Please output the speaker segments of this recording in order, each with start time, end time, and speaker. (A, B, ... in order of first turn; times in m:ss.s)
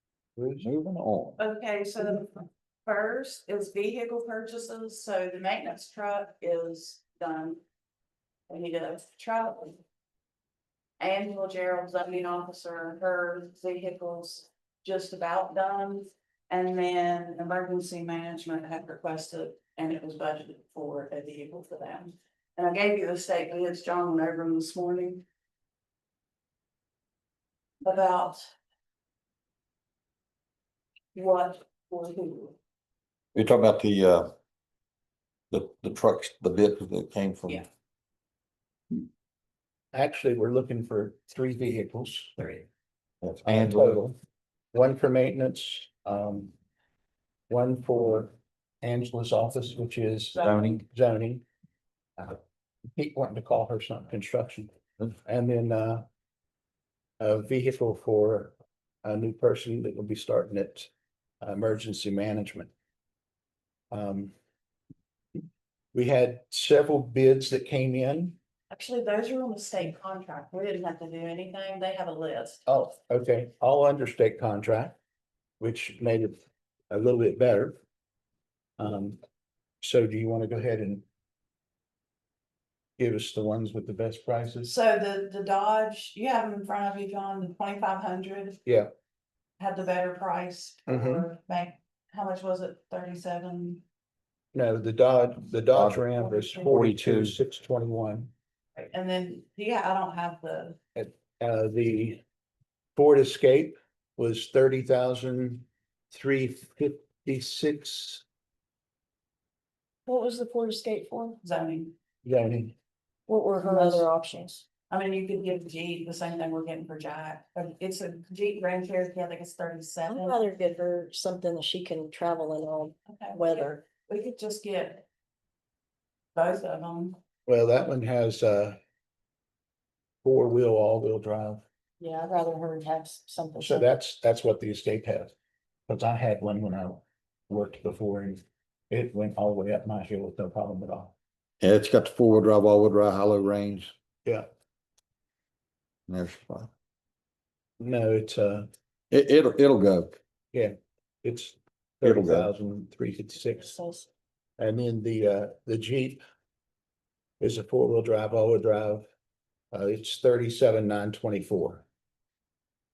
0:00.4-0:00.7 A
0:00.6-0:01.4 B
0:01.4-0:07.6 C
0:08.5-0:09.8 C
0:11.0-0:25.2 C
0:27.8-0:28.4 C
0:31.1-0:32.6 C
0:33.4-0:34.3 B
0:35.5-0:37.6 B
0:39.9-0:42.6 A
0:43.2-0:44.0 B
0:43.4-0:44.2 A
0:44.7-0:46.5 A
0:47.5-0:51.4 A
0:50.4-0:50.6 C
0:50.4-0:50.8 B
0:53.0-0:56.1 A
0:57.2-1:02.7 A
1:03.9-1:04.3 A
1:05.9-1:08.4 A
1:08.7-1:12.7 C
1:12.7-1:15.0 A
1:15.6-1:17.8 A
1:18.8-1:19.2 A
1:19.8-1:21.0 A
1:23.0-1:24.7 A
1:24.6-1:28.6 C
1:29.6-1:33.8 C
1:30.9-1:31.3 A
1:34.5-1:38.3 A
1:35.7-1:36.0 B
1:36.3-1:36.7 C
1:36.7-1:37.4 B
1:38.8-1:40.8 C
1:41.0-1:42.2 A
1:43.0-1:48.2 A
1:50.1-1:51.4 D
1:51.4-1:51.9 C
1:52.2-1:52.8 A
1:53.3-1:54.6 D
1:53.6-1:54.1 C
1:54.9-2:00.4 C
2:00.1-2:03.8 D
2:03.1-2:05.0 C
2:06.4-2:07.2 C
2:07.5-2:08.8 A
2:10.2-2:11.6 A
2:12.0-2:13.9 D
2:13.6-2:15.3 A
2:15.9-2:21.1 A
2:21.6-2:23.9 B
2:26.1-2:26.7 B
2:27.8-2:28.7 A
2:29.1-2:30.1 B
2:30.5-2:33.8 A
2:32.0-2:32.5 B
2:33.5-2:34.0 C
2:34.6-2:36.2 A
2:37.4-2:39.1 A
2:39.7-2:41.8 A